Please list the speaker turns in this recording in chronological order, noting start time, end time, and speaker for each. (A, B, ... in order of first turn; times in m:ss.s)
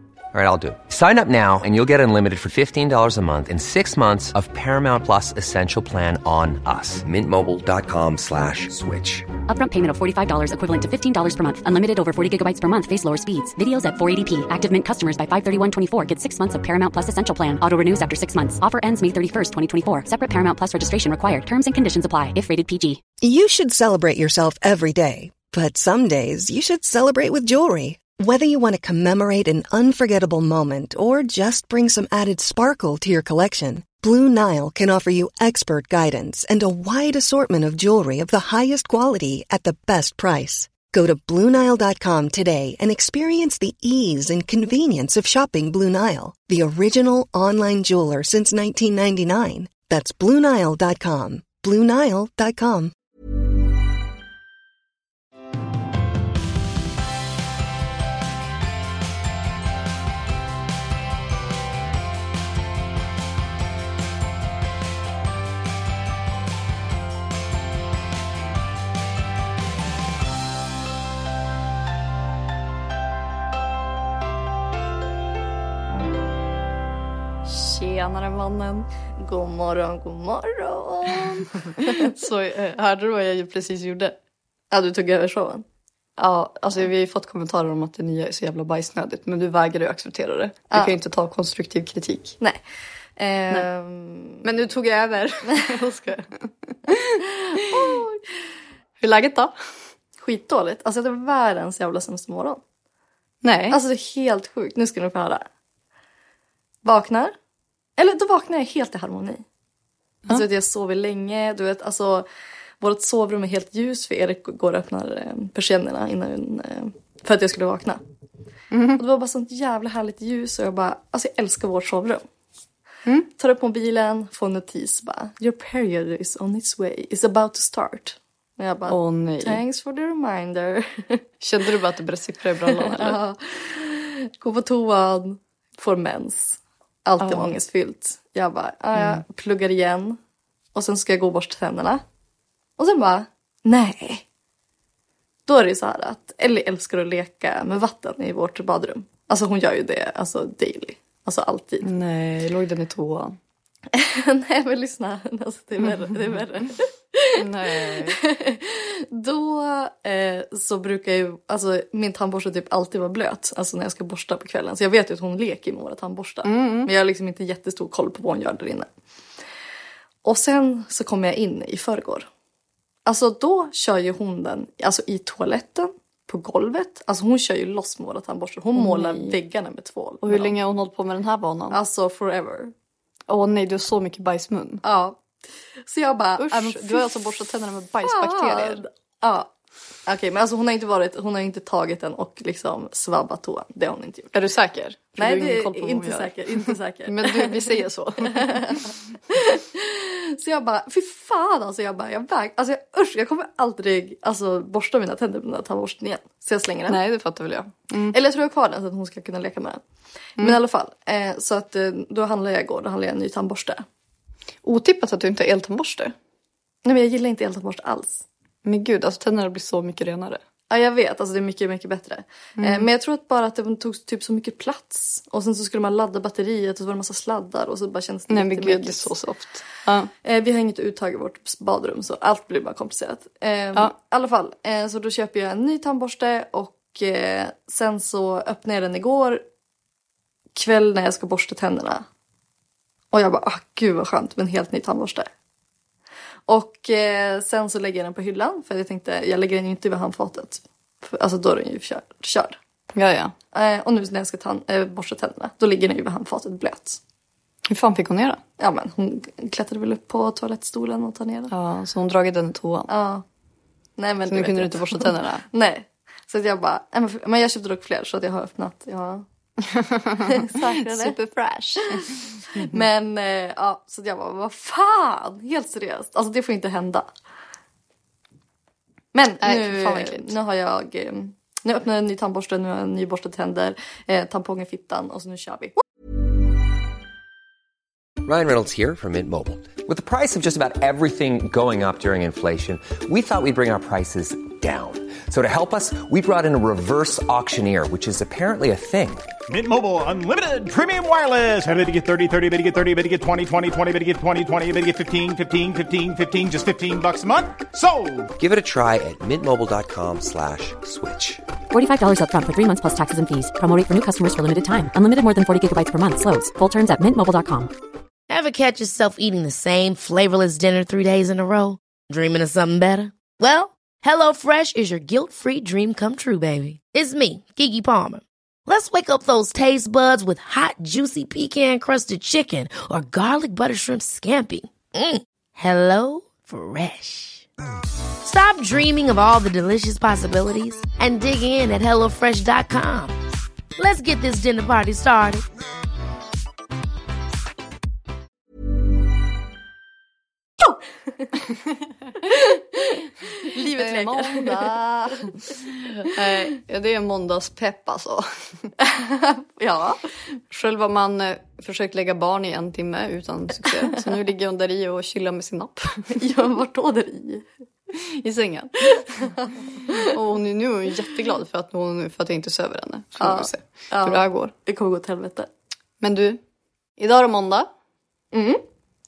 0:00.3-0:09.3 A
0:09.5-0:23.0 B
0:23.2-0:52.9 C
1:17.4-1:18.9 D
1:19.2-1:22.1 E
1:21.4-1:24.2 D
1:24.7-1:25.6 E
1:26.2-1:32.4 D
1:33.2-1:34.4 E
1:34.4-1:38.0 D
1:37.6-1:38.2 E
1:39.0-1:39.5 D
1:40.2-1:42.6 E
1:43.4-1:43.8 D
1:43.7-1:45.5 E
1:46.8-1:47.4 E
1:48.0-1:49.4 E
1:50.3-1:52.3 E
1:52.8-1:58.0 E
1:58.7-1:59.0 D
1:59.0-2:02.2 E
2:03.4-2:11.2 E
2:08.9-2:09.6 D
2:11.4-2:13.2 D
2:12.7-2:20.2 E
2:17.2-2:17.5 D
2:19.0-2:19.2 D
2:20.7-2:22.0 E
2:22.8-2:24.2 E
2:25.5-2:31.9 E
2:31.8-2:33.4 D
2:33.9-2:48.9 E
2:35.8-2:36.2 D
2:37.4-2:38.2 D
2:46.4-2:46.9 D
2:50.2-2:52.3 E
2:53.1-3:00.5 E
2:58.8-2:59.4 D
3:00.2-3:01.8 D
3:01.7-3:02.7 E
3:03.3-3:04.8 D
3:04.8-3:05.2 E
3:05.8-3:07.2 E
3:06.4-3:08.8 D
3:08.0-3:09.5 E
3:10.1-3:14.4 E
3:14.3-3:18.8 D
3:15.2-3:17.7 E
3:18.3-3:27.0 E
3:26.9-3:28.2 D
3:28.1-3:29.8 E
3:30.4-3:33.8 E
3:34.6-3:36.1 D
3:36.8-3:38.2 E
3:38.6-3:40.4 D
3:40.7-3:49.1 E
3:42.6-3:42.9 D
3:48.3-3:50.1 D
3:50.2-3:59.4 E
4:00.6-4:02.1 E
4:03.1-4:05.3 E
4:06.5-4:12.6 E
4:12.9-4:13.3 D
4:13.5-4:17.0 E
4:17.7-4:18.4 D
4:18.6-4:21.5 E
4:21.5-4:22.9 D
4:22.9-4:23.2 E
4:24.0-4:29.2 E
4:24.3-4:25.4 D
4:29.6-4:32.8 D
4:30.2-4:31.2 E
4:31.8-4:37.1 E
4:39.1-4:45.8 E
4:39.4-4:40.3 D
4:48.2-4:59.3 A
4:59.5-5:08.3 F
5:08.4-5:11.4 A
5:11.7-5:17.7 B
5:18.3-5:37.5 G
5:38.2-5:43.2 G
5:43.8-5:45.4 G
5:52.3-5:56.1 E
5:53.8-5:54.8 D
5:56.0-5:58.7 D
5:58.8-6:00.0 E
6:00.5-6:06.2 D
6:06.2-6:07.5 E
6:08.0-6:09.4 D
6:08.9-6:10.1 E
6:10.0-6:14.5 D
6:13.2-6:15.5 E
6:16.0-6:16.4 D
6:17.0-6:17.7 D
6:18.3-6:18.6 E